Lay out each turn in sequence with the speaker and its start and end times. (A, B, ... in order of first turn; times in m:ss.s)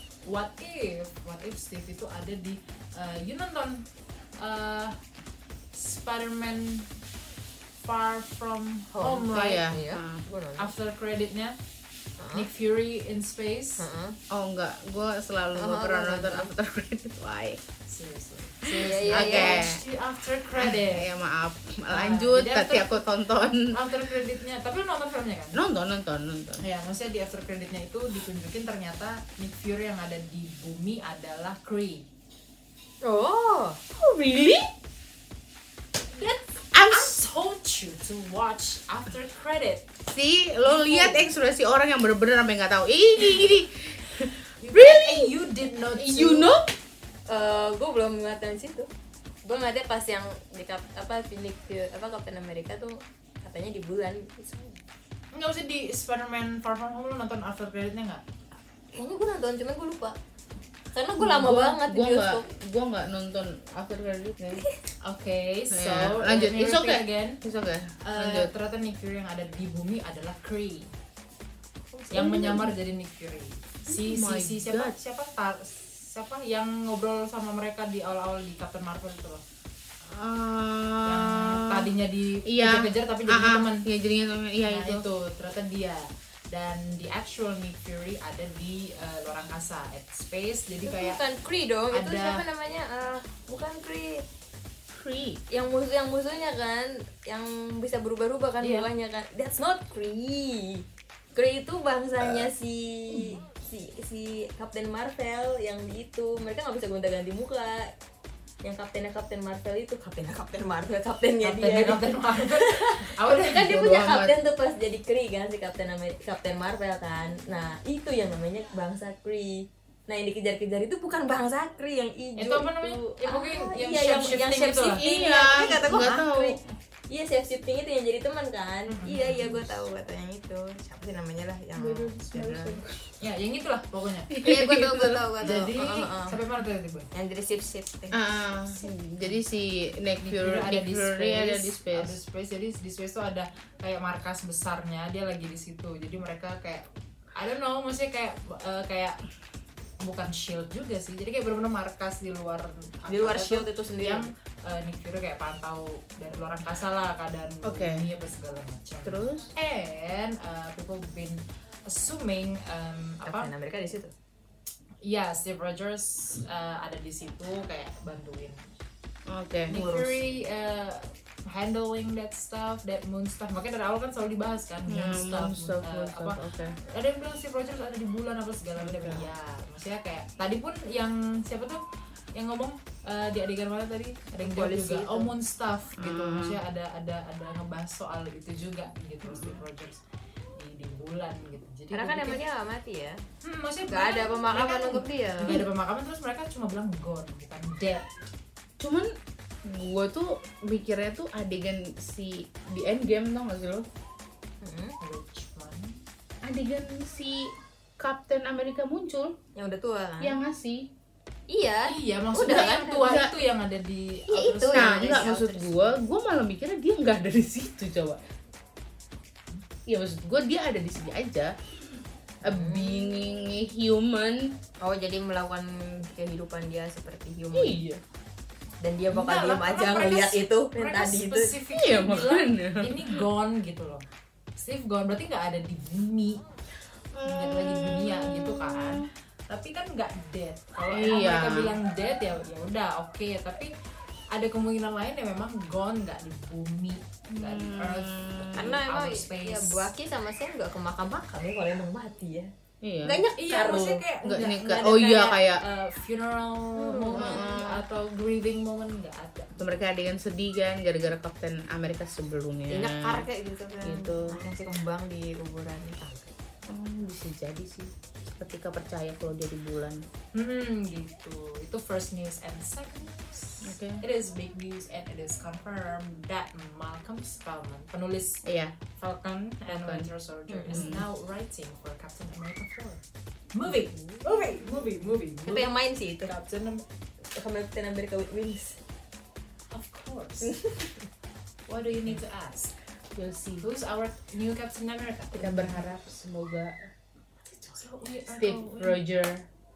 0:00.3-0:03.9 A
0:04.4-0:05.0 A
0:05.7-0:06.9 A
0:07.8-0:09.7 A
0:08.9-0:10.7 B
0:09.2-0:10.2 C
0:10.6-0:11.6 A
0:12.2-0:12.5 B
0:12.3-0:13.8 A
0:13.8-0:14.2 B
0:14.3-0:17.6 C
0:15.6-0:16.5 B
0:17.9-0:21.1 A
0:18.8-0:19.6 B
0:18.8-0:19.8 C
0:20.5-0:24.0 C
0:21.9-0:23.0 A
0:23.7-0:25.6 A
0:25.5-0:26.7 C
0:26.6-0:32.1 A
0:33.0-0:33.8 B
0:33.9-0:34.7 C
0:36.2-0:39.9 A
0:36.7-0:37.1 C
0:40.1-0:45.3 C
0:40.7-0:41.3 A
0:43.2-0:43.5 A
0:44.6-0:46.5 A
0:45.9-0:46.7 C
0:47.3-0:48.9 B
0:49.4-0:54.8 B
0:55.3-0:58.2 A
0:58.9-1:00.2 B
1:00.9-1:02.4 B
1:01.2-1:04.6 C
1:05.0-1:07.4 A
1:05.7-1:08.5 C
1:08.0-1:10.9 A
1:11.9-1:12.5 B
1:12.1-1:19.4 A
1:12.1-1:12.7 C
1:13.9-1:15.0 C
1:20.0-1:21.9 C
1:21.0-1:23.9 A
1:22.5-1:25.1 C
1:24.7-1:31.2 A
1:30.8-1:34.3 B
1:31.9-1:32.4 A
1:34.9-1:35.4 C
1:35.5-1:47.9 B
1:38.6-1:38.9 A
1:42.2-1:42.5 C
1:48.6-2:06.6 B
1:51.4-1:53.8 A
1:53.6-1:54.3 C
2:02.4-2:05.0 A
2:05.0-2:06.7 C
2:07.1-2:12.8 B
2:08.9-2:09.7 A
2:11.9-2:12.7 C
2:12.3-2:14.4 A
2:14.3-2:15.2 C
2:14.4-2:16.4 B
2:15.4-2:17.1 A
2:17.1-2:18.9 B
2:18.1-2:22.2 C
2:20.2-2:29.2 A
2:30.0-2:43.5 A
2:33.1-2:34.3 B
2:37.6-2:38.0 C
2:39.0-2:39.5 C
2:43.2-2:44.1 B
2:45.0-2:48.6 A
2:49.3-2:49.8 C
2:49.7-3:01.8 A
2:49.7-2:50.2 B
2:54.9-2:56.8 C
2:58.8-2:59.3 C
3:02.3-3:10.0 A
3:04.4-3:05.3 B
3:06.0-3:06.6 C
3:09.3-3:09.6 C
3:10.6-3:12.4 A
3:11.9-3:13.2 B
3:13.4-3:18.1 A
3:13.9-3:15.6 B
3:18.8-3:19.1 C
3:19.6-3:23.8 C
3:24.6-3:25.0 B
3:25.0-3:26.0 A
3:26.4-3:29.4 C
3:29.6-3:30.4 B
3:30.2-3:30.9 C
3:31.5-3:33.2 B
3:31.9-3:35.4 A
3:32.4-3:33.3 C
3:34.3-3:35.8 B
3:34.7-3:38.2 C
3:39.9-3:41.5 C
3:42.4-3:44.6 C
3:42.4-3:43.0 B
3:44.8-3:47.8 B
3:47.5-3:48.0 C
3:48.8-3:51.5 B
3:49.1-3:54.1 A
3:51.7-3:53.3 C
3:54.6-3:56.4 A
3:57.1-3:59.1 C
3:57.2-4:03.7 A
4:00.9-4:01.8 C
4:04.3-4:09.9 A
4:07.3-4:08.8 C
4:08.6-4:12.5 B
4:12.8-4:13.2 C
4:13.0-4:14.0 B
4:13.4-4:19.7 A
4:14.2-4:15.6 C
4:16.8-4:17.4 B
4:17.2-4:17.8 C
4:19.6-4:23.3 C
4:22.7-4:26.3 B
4:23.8-4:24.4 C
4:26.7-4:30.0 C
4:30.3-4:38.4 A
4:33.6-4:34.0 C
4:38.4-4:38.8 C
4:39.0-4:43.0 A
4:39.7-4:40.1 C
4:40.5-4:40.9 B
4:40.7-4:41.1 C
4:43.5-4:46.8 A
4:43.7-4:44.7 B
4:45.4-4:46.3 B
4:47.3-4:48.8 B
4:49.7-4:50.6 A
4:50.4-4:51.0 B
4:51.7-4:52.7 A
4:53.2-4:53.7 C
4:53.6-4:55.9 A
4:55.3-4:56.9 C
4:57.7-4:59.0 A
4:58.3-4:59.5 C